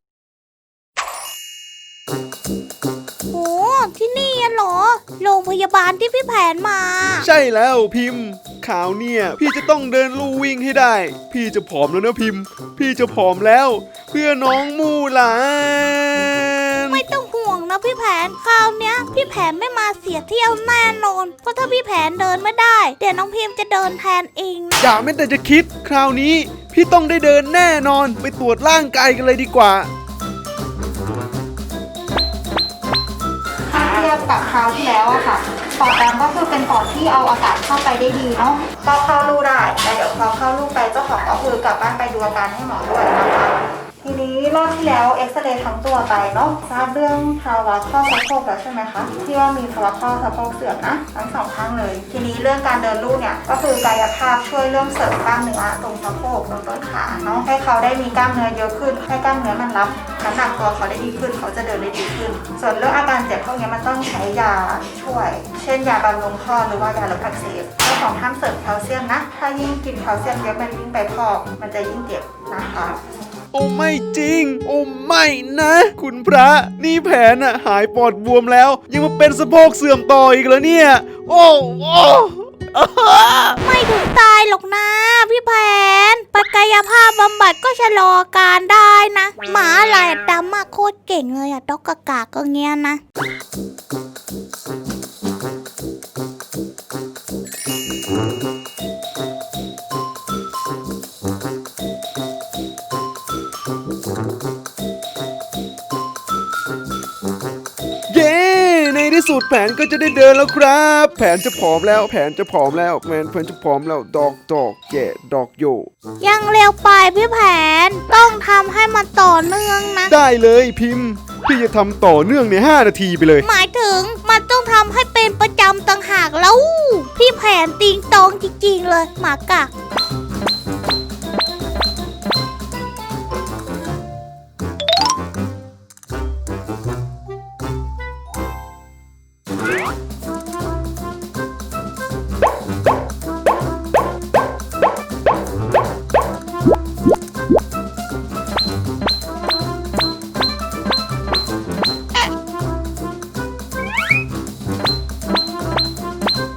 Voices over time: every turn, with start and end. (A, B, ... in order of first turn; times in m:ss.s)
0:03.3-0:07.2 A
0:07.2-0:17.0 B
0:16.9-0:24.8 A
0:24.8-0:29.9 B
0:33.7-1:13.0 C
1:13.5-1:23.6 B
1:23.6-1:33.0 A
1:48.1-1:55.9 B
1:56.2-2:00.1 A
2:00.1-2:03.4 B
2:03.4-2:09.7 A